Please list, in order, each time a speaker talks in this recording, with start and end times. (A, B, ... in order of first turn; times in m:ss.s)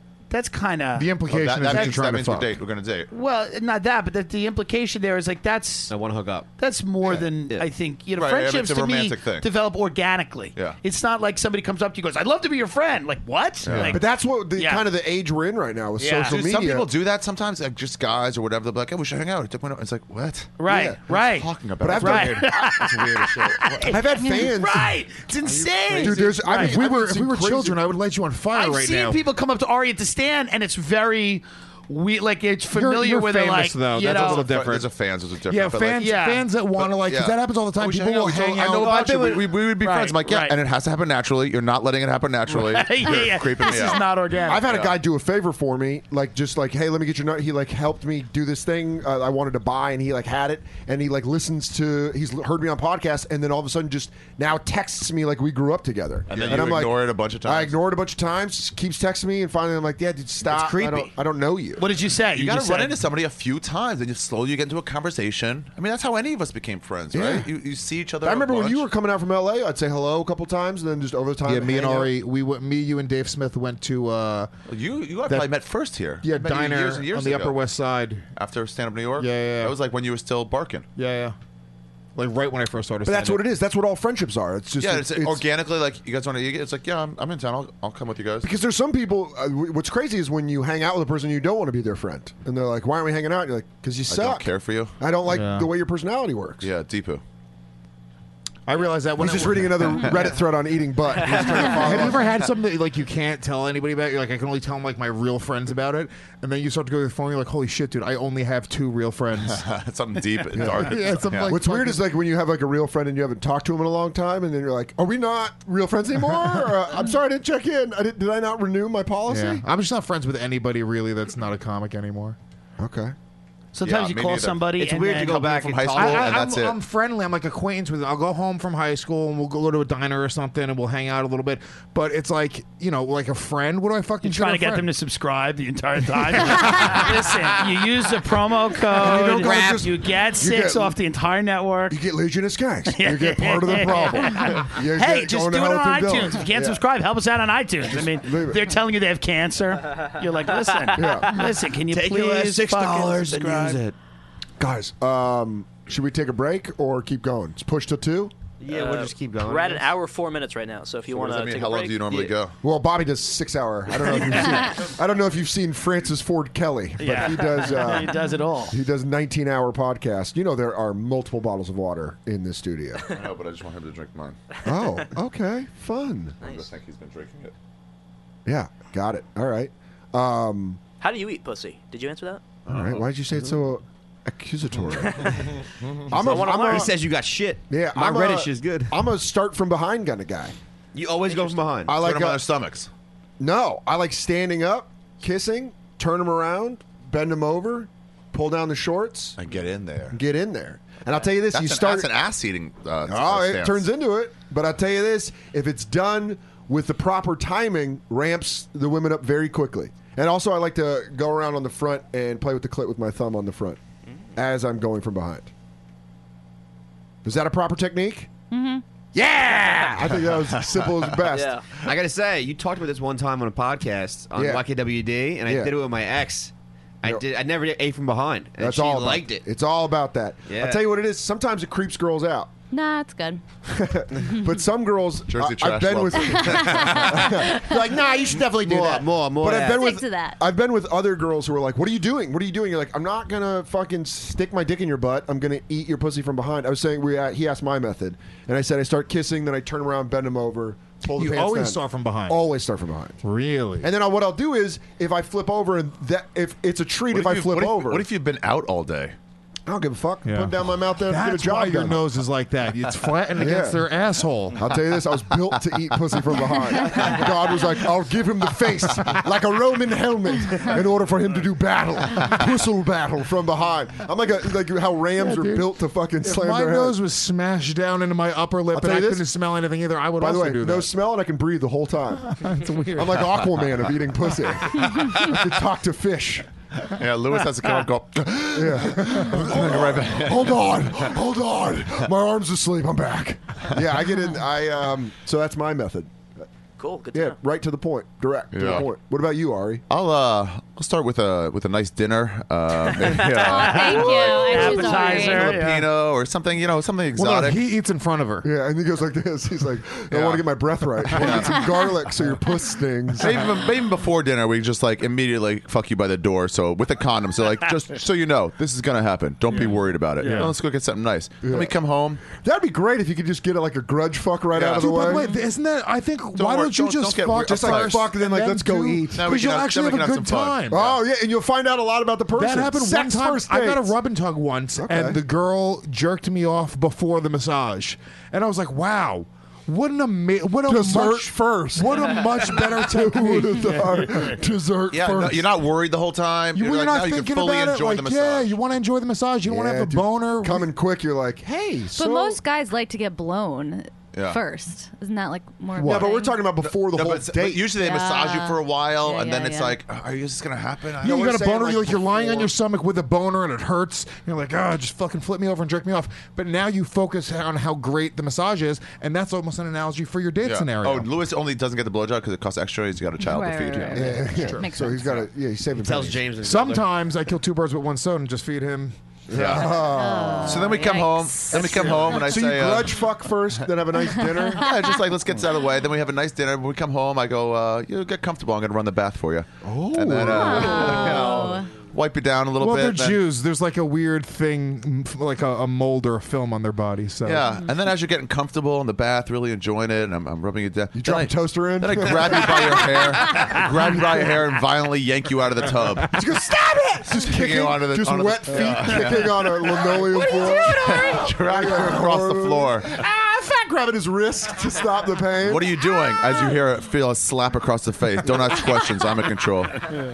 0:00.3-0:02.0 A
0:01.0-0:02.5 B
0:01.3-0:03.1 C
0:03.1-0:05.9 A
0:05.9-0:06.5 D
0:06.6-0:14.0 A
0:07.2-0:07.7 D
0:08.2-0:09.5 C
0:10.6-0:10.8 C
0:13.6-0:14.0 C
0:13.7-0:14.0 B
0:13.9-0:16.9 E
0:14.5-0:14.9 A
0:16.0-0:16.4 A
0:16.3-0:22.4 C
0:20.6-0:21.5 A
0:20.7-0:21.0 E
0:21.8-0:22.4 E
0:22.0-0:23.8 B
0:22.0-0:26.8 A
0:23.8-0:24.9 E
0:25.4-0:29.2 B
0:26.0-0:27.8 E
0:28.5-0:34.4 A
0:32.7-0:34.9 B
0:34.0-0:36.1 C
0:35.5-0:39.2 B
0:36.0-0:36.5 A
0:36.8-0:44.9 C
0:39.1-0:40.6 A
0:42.5-0:44.7 A
0:44.4-1:01.9 E
0:56.3-0:57.8 C
1:00.5-1:01.1 D
1:01.8-1:03.0 A
1:02.3-1:08.8 C
1:07.1-1:07.5 E
1:08.2-1:12.1 E
1:11.4-1:14.5 B
1:14.7-1:17.6 C
1:16.2-1:18.2 B
1:18.4-1:20.9 C
1:19.2-1:19.8 B
1:21.0-1:21.4 B
1:22.2-1:23.5 B
1:23.1-1:25.4 E
1:24.8-1:28.5 C
1:28.4-1:34.5 E
1:34.1-1:35.0 C
1:35.0-1:36.7 E
1:35.3-1:35.7 B
1:36.6-1:37.2 C
1:38.7-1:40.2 B
1:39.2-1:42.2 E
1:41.6-1:49.6 B
1:49.5-1:51.6 C
1:50.6-1:50.9 E
1:50.6-1:52.0 B
1:51.4-1:59.7 E
1:59.3-2:02.4 B
2:02.8-2:03.2 E
2:03.8-2:05.5 A
2:03.8-2:06.8 C
2:04.8-2:06.3 D
2:05.9-2:14.9 B
2:14.2-2:22.0 A
2:16.3-2:17.1 B
2:18.9-2:21.0 E
2:19.0-2:19.8 B
2:21.9-2:26.8 E
2:22.9-2:33.8 A
2:27.9-2:28.7 E
2:30.9-2:31.3 E
2:31.9-2:34.0 D
2:34.6-2:38.4 E
2:38.6-2:39.9 D
2:38.6-2:42.4 F
2:41.1-2:42.6 C
2:42.6-2:53.1 E
2:47.0-2:48.8 A
2:53.1-2:54.4 C
2:54.6-2:56.4 E
2:56.4-2:57.5 C
2:58.5-3:00.8 E
3:01.0-3:02.4 F
3:02.7-3:03.0 C
3:02.7-3:05.4 E
3:06.1-3:07.0 E
3:06.1-3:09.0 D
3:07.7-3:10.6 E
3:10.9-3:12.0 D
3:11.3-3:11.6 F
3:11.9-3:12.4 E
3:12.0-3:12.9 C
3:13.4-3:19.4 E
3:19.4-3:20.2 C
3:20.1-3:22.1 E
3:21.5-3:23.9 C
3:23.1-3:33.8 E
3:34.4-3:35.5 E
3:37.2-3:38.3 E
3:38.5-3:38.8 G
3:39.2-3:40.0 D
3:39.6-3:41.5 E
3:41.3-3:41.7 F
3:41.8-3:49.4 D
3:44.4-3:44.7 E
3:45.4-3:45.7 E
3:48.6-3:52.5 E
3:50.5-3:50.8 D
3:52.7-3:53.4 G
3:53.7-4:13.2 E
3:55.3-3:57.3 C
3:56.4-3:57.8 G
3:58.4-3:59.9 D
3:59.6-4:00.4 G
4:11.2-4:12.4 B
4:13.2-4:13.9 B
4:13.8-4:18.1 E
4:17.1-4:19.2 C
4:19.7-4:22.0 E
4:20.2-4:24.6 B
4:23.4-4:23.8 E
4:24.6-4:37.0 E
4:35.2-4:35.7 B
4:36.2-4:40.9 B
4:38.7-4:39.3 E
4:40.2-4:42.4 E
4:42.2-4:43.5 B
4:43.0-4:46.5 E
4:46.9-4:51.0 C
4:48.5-4:56.2 E
4:56.8-4:57.4 F
4:57.1-4:59.8 E
4:58.5-4:58.9 C
4:59.9-5:07.6 C
5:03.3-5:05.6 G
5:03.6-5:05.9 A
5:07.2-5:08.5 B
5:08.4-5:13.4 E
5:11.1-5:11.6 C
5:13.2-5:22.2 C
5:20.2-5:20.5 A
5:20.2-5:20.5 B
5:21.4-5:21.8 E
5:22.3-5:25.3 E
5:24.5-5:25.1 C
5:24.8-5:30.8 B
5:26.4-5:28.0 C
5:27.4-5:29.2 E
5:29.1-5:31.0 C
5:30.7-5:34.0 E
5:32.4-5:44.3 B
5:34.8-5:35.2 E
5:40.7-5:45.5 E
5:44.9-5:48.6 C
5:46.6-5:50.7 B
5:49.4-5:52.4 E
5:51.9-5:56.5 G
5:54.1-5:54.4 C
5:55.8-5:57.8 E
5:56.6-6:01.2 C
5:57.8-5:59.8 G
6:01.0-6:02.5 E
6:01.0-6:11.1 B
6:10.4-6:14.2 C
6:13.2-6:15.3 G
6:13.8-6:14.7 B
6:13.9-6:16.2 E
6:15.8-6:16.9 D
6:16.4-6:19.5 B
6:19.3-6:20.8 E
6:19.3-6:19.9 C
6:19.7-6:22.3 G
6:20.4-6:23.0 C
6:21.5-6:24.7 E
6:24.2-6:25.0 G
6:24.5-6:33.2 C
6:29.6-6:31.4 E
6:30.3-6:31.7 G
6:32.6-6:37.5 B
6:37.2-6:46.2 C
6:41.0-6:43.4 E
6:44.0-6:44.2 E
6:46.1-6:55.9 E
6:47.2-6:52.9 C
6:55.4-6:59.9 C